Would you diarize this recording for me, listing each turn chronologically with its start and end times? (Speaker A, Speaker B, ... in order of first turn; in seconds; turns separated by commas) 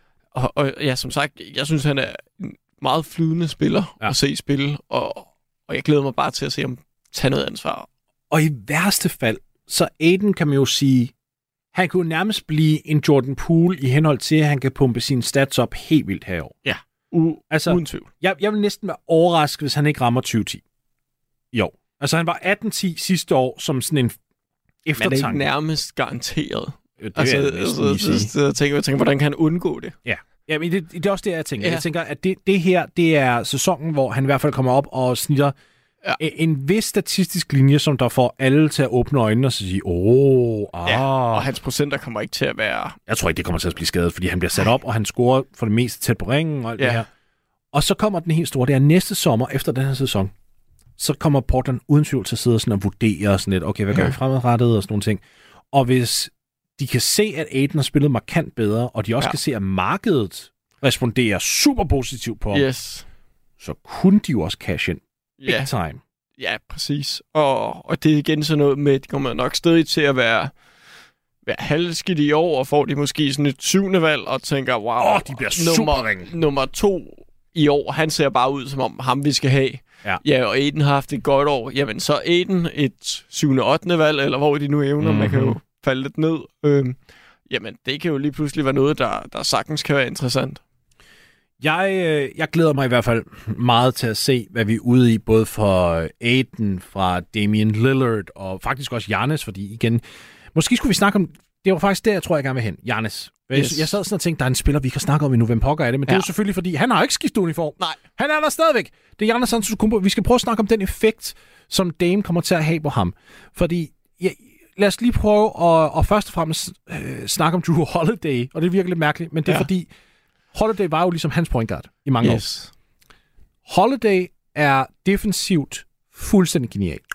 Speaker A: 0.3-7.9, Speaker B: 8.3-11.1, Speaker B: 11.7-16.5, Speaker A: 16.6-18.1, Speaker B: 17.5-20.6, Speaker B: 21.5-24.2, Speaker B: 24.9-25.4, Speaker A: 25.0-29.9, Speaker B: 27.0-28.3, Speaker B: 30.1-35.5, Speaker B: 36.2-41.5, Speaker A: 40.8-43.0, Speaker B: 43.1-47.1, Speaker A: 46.8-47.0, Speaker B: 47.7-50.3, Speaker B: 51.0-62.7, Speaker A: 62.5-63.1, Speaker B: 63.6-66.0, Speaker A: 65.4-65.7, Speaker A: 66.4-70.5, Speaker A: 71.5-87.0, Speaker B: 75.0-76.3, Speaker B: 85.0-85.6, Speaker A: 87.5-90.6, Speaker B: 91.6-100.0, Speaker B: 100.5-119.9, Speaker A: 103.5-103.9, Speaker B: 120.5-122.5, Speaker A: 122.2-122.7, Speaker B: 123.7-127.0